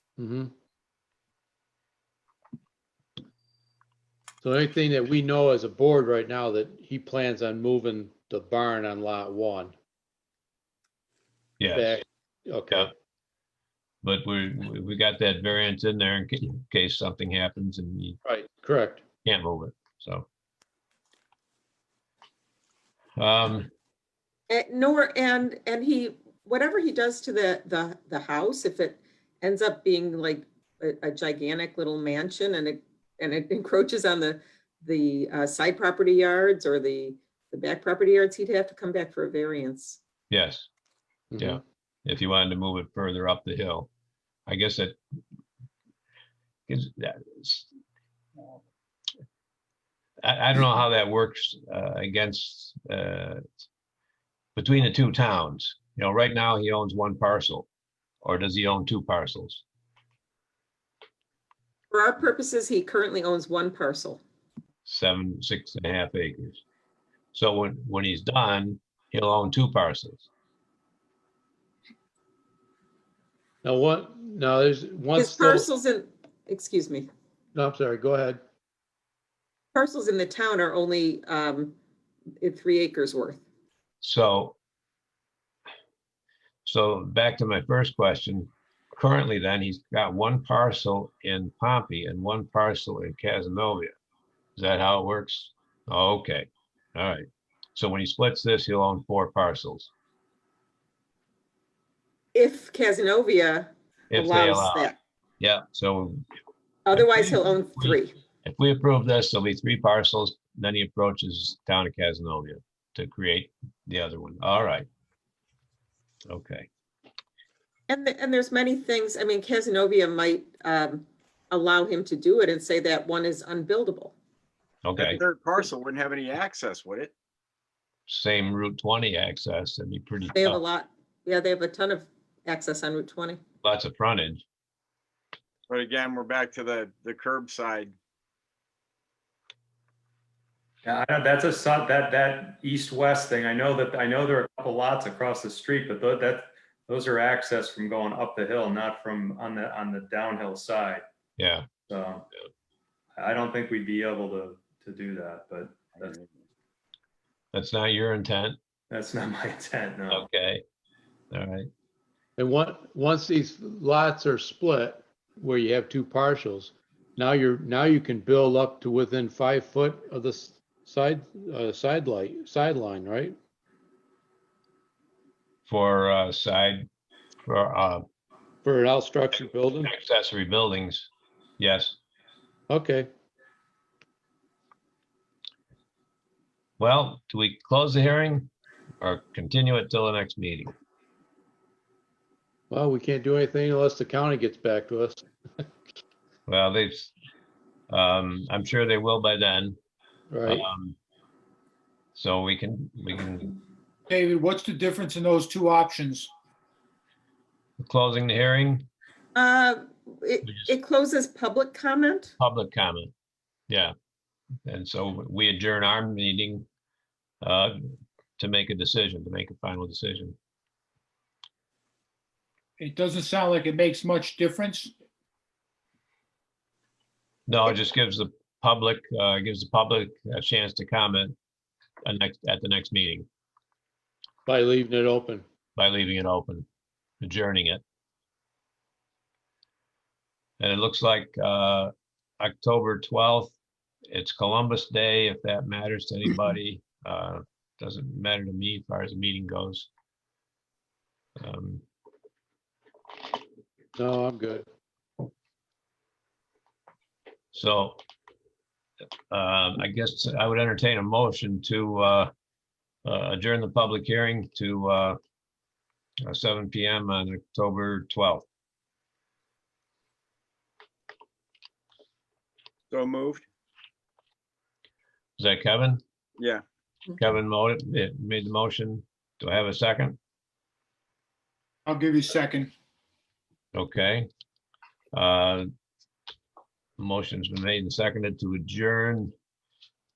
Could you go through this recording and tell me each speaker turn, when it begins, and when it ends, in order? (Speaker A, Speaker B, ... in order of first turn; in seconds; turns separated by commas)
Speaker A: 0.2-0.5, Speaker A: 4.4-9.8, Speaker B: 11.6-12.0, Speaker A: 11.7-12.9, Speaker B: 14.0-18.2, Speaker A: 18.2-19.0, Speaker B: 19.2-20.3, Speaker B: 23.2-23.7, Speaker C: 24.5-40.0, Speaker B: 40.3-40.7, Speaker A: 41.3-41.6, Speaker B: 41.4-43.9, Speaker B: 44.5-45.0, Speaker B: 46.7-47.7, Speaker B: 50.2-53.4, Speaker B: 54.6-57.7, Speaker B: 58.2-59.6, Speaker C: 61.9-64.2, Speaker B: 64.9-66.6, Speaker B: 67.3-70.3, Speaker A: 73.6-75.7, Speaker C: 75.2-77.1, Speaker A: 77.5-78.4, Speaker C: 79.7-81.8, Speaker C: 82.4-83.4, Speaker B: 84.0-84.6, Speaker B: 86.7-93.9, Speaker B: 94.6-99.9, Speaker C: 102.3-105.0, Speaker B: 104.1-106.2, Speaker C: 106.9-108.1, Speaker B: 107.0-114.9, Speaker B: 116.3-116.7, Speaker C: 117.9-124.2, Speaker B: 124.8-125.2, Speaker D: 125.0-127.1, Speaker B: 128.1-130.6, Speaker C: 130.3-133.4, Speaker B: 133.6-134.4, Speaker D: 135.7-137.9, Speaker E: 140.8-151.0, Speaker B: 151.4-151.7, Speaker E: 151.9-152.3, Speaker E: 153.2-156.2, Speaker B: 157.5-158.6, Speaker E: 158.9-160.3, Speaker B: 160.1-160.6, Speaker B: 161.3-161.7, Speaker A: 162.4-173.4, Speaker B: 175.7-176.9, Speaker B: 177.5-178.1, Speaker A: 178.7-179.9, Speaker B: 179.8-181.1, Speaker B: 181.6-182.0, Speaker A: 182.7-183.1, Speaker B: 186.8-190.7, Speaker A: 192.7-195.3, Speaker B: 196.5-197.1, Speaker B: 197.9-199.8, Speaker A: 200.3-200.7, Speaker B: 200.5-201.0, Speaker B: 202.2-203.6, Speaker F: 204.1-206.3, Speaker B: 207.8-208.9, Speaker C: 209.3-212.3, Speaker B: 212.4-213.1, Speaker B: 214.7-216.7, Speaker B: 217.4-217.8, Speaker B: 218.4-220.4, Speaker F: 222.8-224.9, Speaker B: 227.5-231.4, Speaker B: 232.1-233.3, Speaker A: 234.5-235.4, Speaker B: 235.8-236.7, Speaker B: 237.2-237.8, Speaker B: 240.6-243.5, Speaker B: 244.1-249.9, Speaker B: 251.4-251.8, Speaker A: 254.0-254.7, Speaker B: 257.5-258.0, Speaker B: 259.3-262.3, Speaker B: 263.1-265.2, Speaker B: 266.3-268.5, Speaker D: 272.9-273.4, Speaker B: 275.4-276.0, Speaker B: 277.2-280.2, Speaker F: 281.9-282.7, Speaker B: 283.7-284.3, Speaker B: 285.1-285.7, Speaker B: 287.0-289.3